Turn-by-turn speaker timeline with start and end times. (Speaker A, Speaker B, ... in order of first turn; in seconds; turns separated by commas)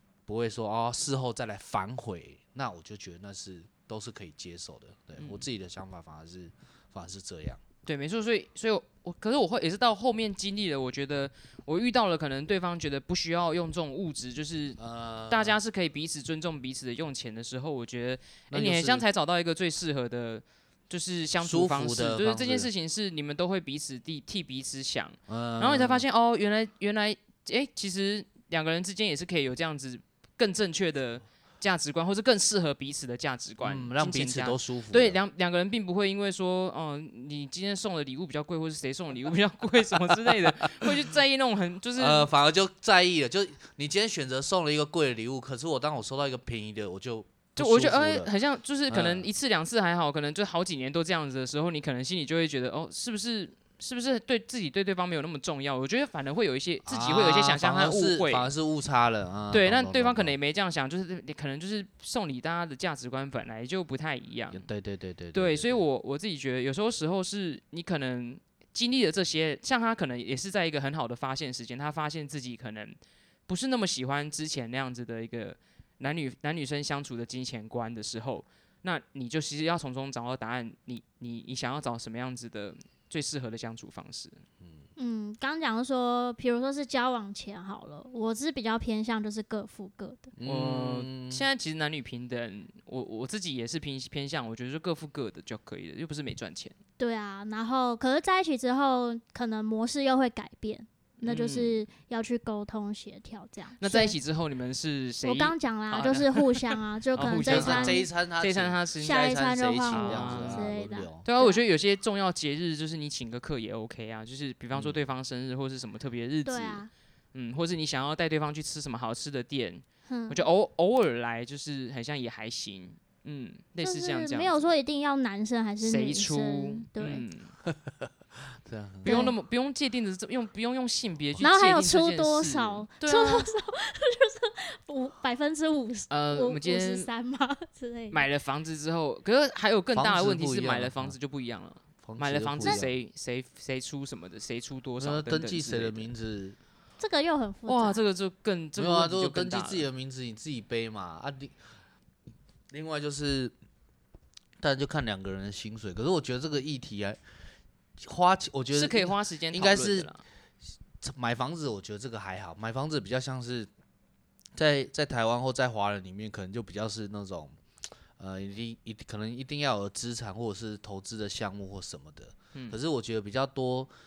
Speaker A: 0.3-7.6, Speaker B: 5.2-5.5, Speaker B: 7.8-14.8, Speaker A: 14.8-15.6, Speaker B: 15.3-42.3, Speaker A: 18.5-19.0, Speaker A: 21.4-22.7, Speaker A: 25.3-26.0, Speaker A: 33.6-35.2, Speaker A: 42.0-48.3, Speaker B: 47.5-58.5, Speaker A: 48.9-49.3, Speaker A: 56.8-60.3, Speaker B: 59.5-64.7, Speaker A: 64.5-65.8, Speaker B: 65.3-73.0, Speaker B: 73.5-84.4, Speaker C: 85.0-90.3, Speaker A: 90.3-91.5, Speaker B: 90.4-96.7, Speaker C: 97.0-104.2, Speaker B: 101.2-101.8, Speaker B: 103.8-109.3, Speaker C: 105.2-108.1, Speaker A: 107.4-111.2, Speaker C: 109.0-111.6, Speaker B: 109.9-110.7, Speaker B: 111.2-124.7, Speaker C: 116.4-116.9, Speaker C: 120.1-120.4, Speaker C: 123.8-127.2, Speaker B: 125.8-127.5, Speaker A: 127.7-129.3, Speaker B: 129.0-133.5, Speaker C: 129.0-129.3, Speaker C: 131.4-138.2, Speaker B: 136.1-137.1, Speaker B: 138.1-146.1, Speaker A: 139.9-141.1, Speaker A: 142.0-142.9, Speaker A: 145.0-146.6, Speaker C: 147.0-148.0, Speaker B: 147.7-149.9, Speaker A: 148.8-151.6, Speaker A: 152.7-153.5, Speaker A: 154.6-157.2, Speaker A: 158.0-160.1, Speaker B: 158.7-160.2, Speaker A: 161.0-163.7, Speaker A: 164.6-167.6, Speaker A: 168.2-173.9